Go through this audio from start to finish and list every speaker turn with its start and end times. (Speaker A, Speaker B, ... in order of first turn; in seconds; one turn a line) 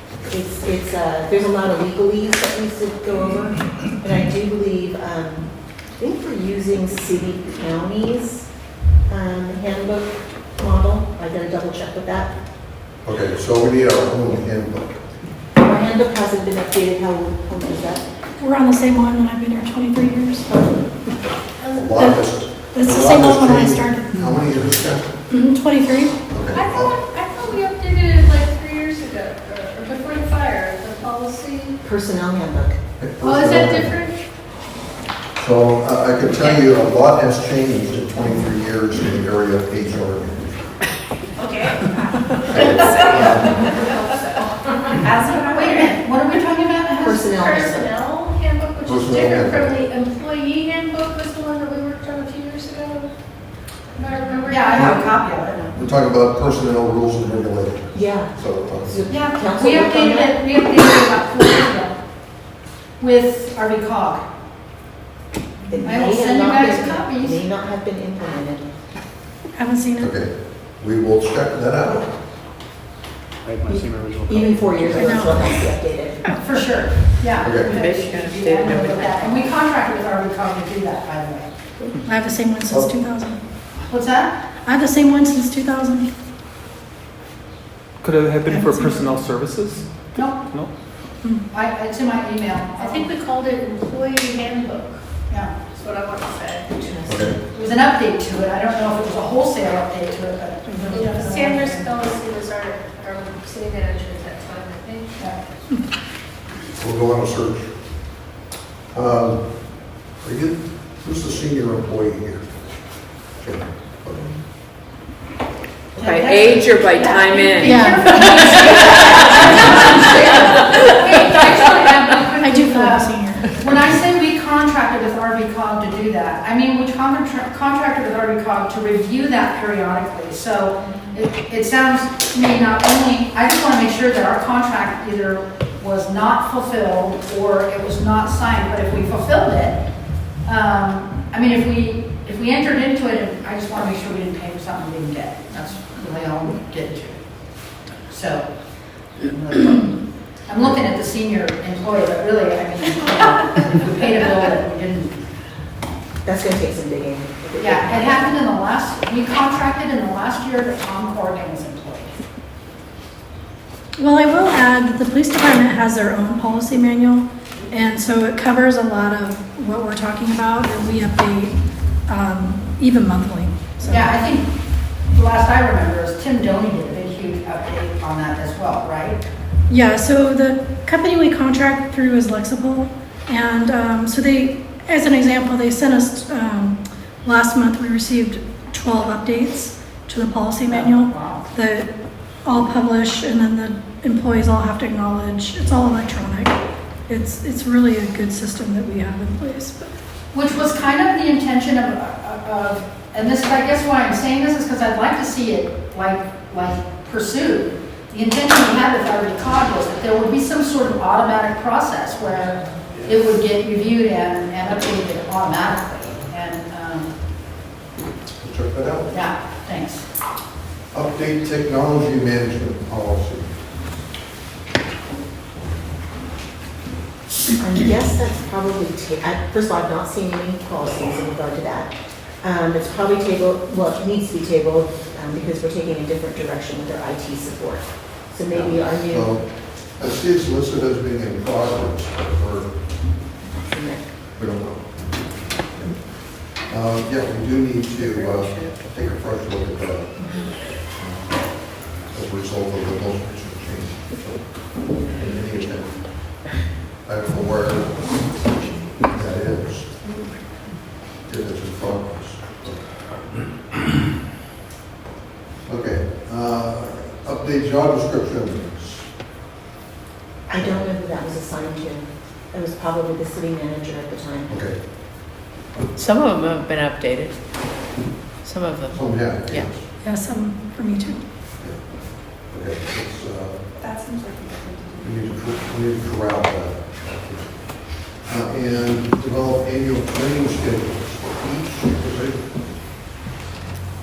Speaker A: 0.3-8.5
Speaker A: 9.1-12.3
Speaker B: 13.0-15.0
Speaker A: 15.6-18.0
Speaker C: 18.4-20.5
Speaker D: 21.6-22.0
Speaker B: 21.7-25.2
Speaker C: 22.0-24.4
Speaker C: 25.3-26.2
Speaker B: 26.3-26.9
Speaker D: 26.5-31.8
Speaker A: 31.8-32.8
Speaker B: 33.0-34.0
Speaker D: 33.2-34.2
Speaker B: 35.4-40.8
Speaker D: 41.4-45.9
Speaker B: 42.5-43.8
Speaker E: 45.0-47.3
Speaker A: 47.0-48.0
Speaker D: 47.3-53.1
Speaker B: 48.9-49.8
Speaker D: 54.0-55.2
Speaker E: 54.5-55.7
Speaker B: 55.7-59.0
Speaker A: 57.9-60.4
Speaker E: 59.1-62.0
Speaker E: 63.0-64.2
Speaker A: 65.7-68.7
Speaker E: 65.8-67.4
Speaker C: 69.5-70.1
Speaker B: 70.0-72.2
Speaker F: 73.5-75.2
Speaker A: 74.3-76.2
Speaker C: 74.9-75.5
Speaker E: 76.4-81.5
Speaker B: 77.4-77.8
Speaker G: 77.4-79.4
Speaker C: 82.0-83.4
Speaker E: 83.9-84.3
Speaker C: 84.7-86.1
Speaker F: 88.0-89.9
Speaker C: 88.5-89.2
Speaker E: 90.2-90.5
Speaker E: 91.5-93.1
Speaker D: 92.8-95.0
Speaker D: 95.7-97.0
Speaker A: 96.8-97.3
Speaker B: 97.1-97.4
Speaker E: 97.5-101.8
Speaker C: 100.7-101.3
Speaker D: 100.9-105.2
Speaker B: 106.8-107.8
Speaker B: 108.9-112.7
Speaker B: 113.4-114.4
Speaker G: 116.0-122.2
Speaker E: 116.0-139.8
Speaker C: 117.6-118.1
Speaker C: 122.4-123.6
Speaker E: 140.4-147.2
Speaker E: 148.1-148.4
Speaker E: 150.5-155.2
Speaker A: 156.2-158.4
Speaker E: 157.6-162.1
Speaker C: 164.0-171.6
Speaker C: 172.1-174.2
Speaker E: 173.9-174.5
Speaker E: 175.1-179.2
Speaker C: 179.7-191.9
Speaker E: 190.7-191.5
Speaker C: 192.4-196.6
Speaker C: 197.1-199.9
Speaker E: 200.3-217.1
Speaker B: 218.4-219.1
Speaker E: 219.1-220.0
Speaker B: 220.9-223.5
Speaker A: 227.6-239.3
Speaker B: 238.5-242.8
Speaker A: 243.4-244.0
Speaker B: 244.4-260.1
Speaker G: 248.0-248.7
Speaker B: 261.2-263.3
Speaker B: 265.7-269.1
Speaker A: 270.5-274.6
Speaker B: 274.5-274.8
Speaker G: 275.9-277.4
Speaker G: 278.4-279.7
Speaker B: 278.9-279.9
Speaker C: 280.0-281.2
Speaker B: 281.6-283.6
Speaker B: 285.0-292.8